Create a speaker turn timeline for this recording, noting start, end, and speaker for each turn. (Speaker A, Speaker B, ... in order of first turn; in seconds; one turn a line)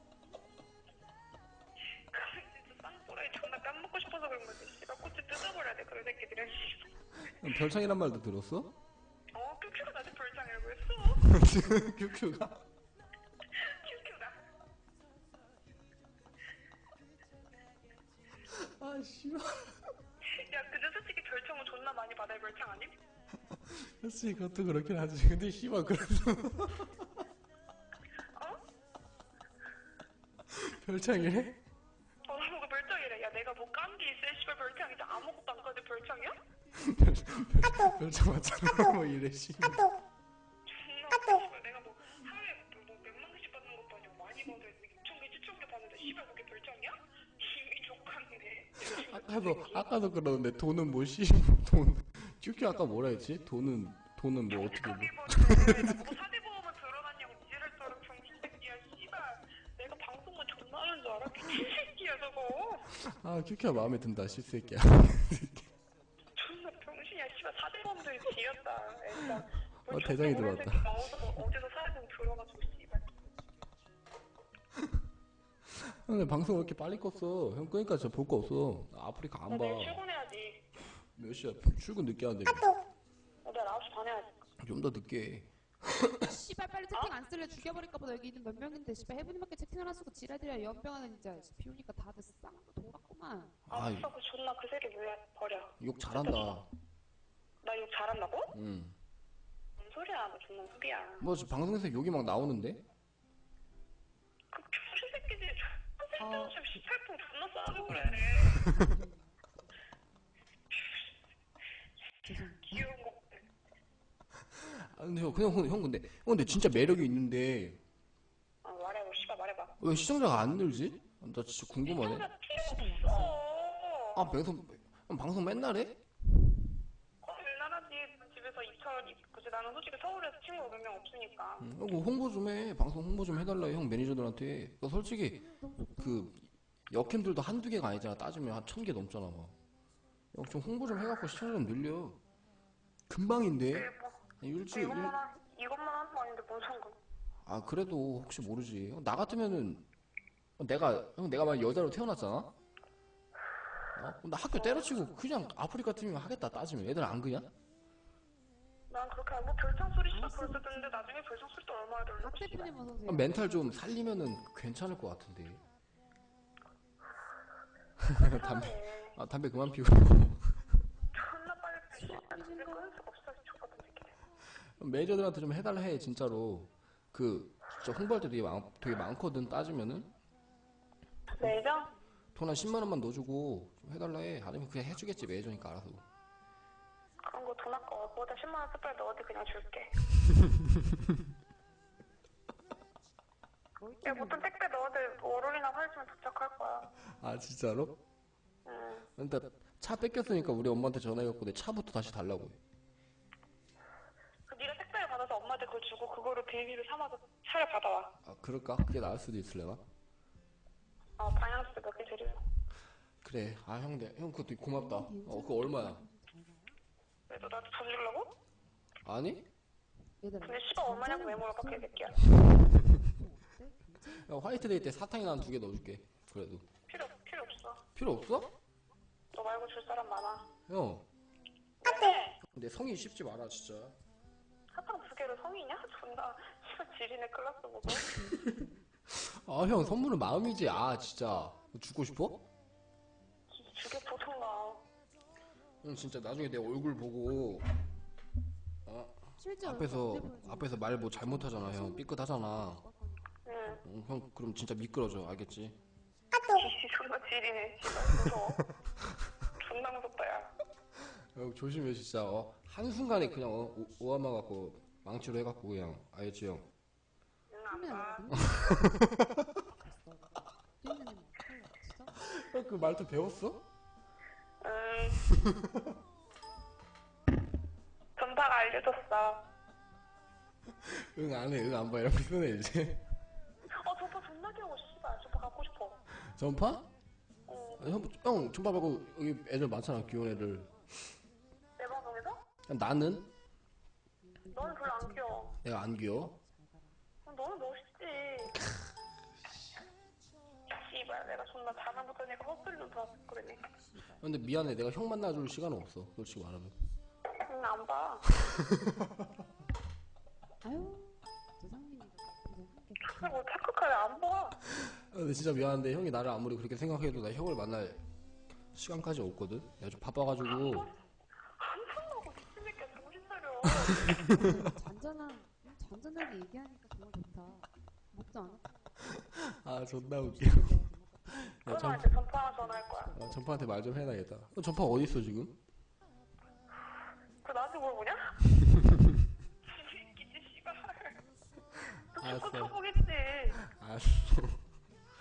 Speaker A: 2.0-6.9
Speaker B: 7.3-8.7
Speaker A: 9.3-11.2
Speaker B: 11.2-12.6
Speaker A: 13.6-14.4
Speaker B: 18.5-19.8
Speaker A: 20.2-22.9
Speaker B: 23.5-26.9
Speaker A: 28.3-28.6
Speaker B: 30.5-31.6
Speaker A: 32.2-36.3
Speaker B: 36.7-39.9
Speaker A: 40.6-49.9
Speaker B: 48.9-55.9
Speaker A: 54.5-62.9
Speaker B: 62.9-65.7
Speaker A: 66.3-73.1
Speaker B: 69.9-71.2
Speaker B: 75.7-80.0
Speaker A: 79.5-80.6
Speaker B: 81.2-82.7
Speaker A: 83.4-84.3
Speaker B: 84.6-86.2
Speaker C: 86.2-93.6
Speaker B: 93.7-94.1
Speaker A: 93.7-96.5
Speaker B: 95.8-96.6
Speaker A: 97.6-98.5
Speaker B: 98.5-99.0
Speaker A: 99.8-101.3
Speaker B: 101.2-102.8
Speaker A: 104.5-108.7
Speaker C: 106.2-106.8
Speaker C: 107.7-109.7
Speaker A: 110.8-111.0
Speaker C: 112.2-112.9
Speaker A: 112.6-113.5
Speaker B: 114.5-117.8
Speaker A: 118.6-119.7
Speaker B: 119.8-122.3
Speaker A: 121.8-124.3
Speaker C: 122.5-123.4
Speaker B: 124.1-126.0
Speaker A: 127.2-131.7
Speaker B: 131.6-135.4
Speaker C: 135.3-136.3
Speaker B: 136.0-139.5
Speaker B: 140.3-142.2
Speaker B: 143.1-145.2
Speaker A: 143.7-147.0
Speaker B: 147.4-149.8
Speaker B: 150.6-152.5
Speaker B: 153.9-157.5
Speaker A: 154.5-155.0
Speaker A: 158.9-162.7
Speaker C: 160.1-161.2
Speaker C: 162.2-164.2
Speaker B: 163.1-165.6
Speaker B: 168.0-170.7
Speaker A: 168.2-169.2
Speaker A: 171.1-174.1
Speaker C: 171.9-173.0
Speaker B: 174.6-180.1
Speaker A: 181.3-181.9
Speaker B: 182.3-186.0
Speaker A: 187.2-189.9
Speaker C: 193.8-194.5
Speaker A: 194.0-196.9
Speaker B: 197.0-197.9
Speaker A: 198.7-199.1
Speaker B: 199.2-202.6
Speaker A: 204.5-208.1
Speaker B: 208.2-209.8
Speaker A: 211.2-212.4
Speaker B: 213.2-216.0
Speaker C: 214.6-216.8
Speaker A: 217.3-218.3
Speaker B: 219.0-219.4
Speaker C: 220.2-226.0
Speaker A: 220.4-222.2
Speaker B: 224.1-226.6
Speaker A: 226.9-227.8
Speaker B: 227.9-228.5
Speaker A: 229.3-230.5
Speaker B: 230.7-231.0
Speaker A: 231.8-232.4
Speaker B: 232.4-233.9
Speaker A: 234.7-238.1
Speaker C: 237.8-238.9
Speaker B: 239.1-242.4
Speaker A: 243.5-244.8
Speaker B: 245.8-247.7
Speaker B: 248.8-252.8
Speaker C: 249.4-253.8
Speaker A: 253.4-253.8
Speaker B: 253.8-255.8
Speaker A: 256.5-258.6
Speaker A: 259.6-260.5
Speaker B: 261.1-266.6
Speaker A: 267.5-268.3
Speaker C: 267.7-269.1
Speaker C: 269.6-272.2
Speaker B: 272.2-273.6
Speaker A: 274.6-275.2
Speaker A: 278.1-279.4
Speaker B: 280.8-283.0
Speaker A: 283.7-286.0
Speaker B: 286.1-286.8
Speaker A: 287.5-287.9
Speaker B: 287.8-291.1
Speaker A: 291.8-292.4
Speaker B: 292.7-293.3
Speaker C: 294.2-295.6
Speaker A: 294.5-295.6
Speaker B: 295.6-296.3
Speaker C: 296.4-297.0
Speaker A: 297.2-298.6
Speaker A: 300.7-303.7
Speaker C: 303.8-304.4
Speaker B: 304.2-306.8
Speaker A: 307.4-308.2
Speaker C: 310.6-313.4
Speaker A: 313.1-314.6
Speaker B: 314.8-318.0
Speaker B: 318.7-320.9
Speaker A: 320.4-321.0
Speaker A: 321.6-324.2
Speaker B: 324.0-324.4
Speaker C: 324.3-329.0
Speaker B: 329.3-332.1
Speaker C: 329.7-334.2
Speaker A: 331.7-333.2
Speaker B: 333.1-335.5
Speaker A: 337.4-338.5
Speaker A: 339.6-341.2
Speaker B: 342.1-342.7
Speaker A: 342.1-343.6
Speaker B: 343.6-344.6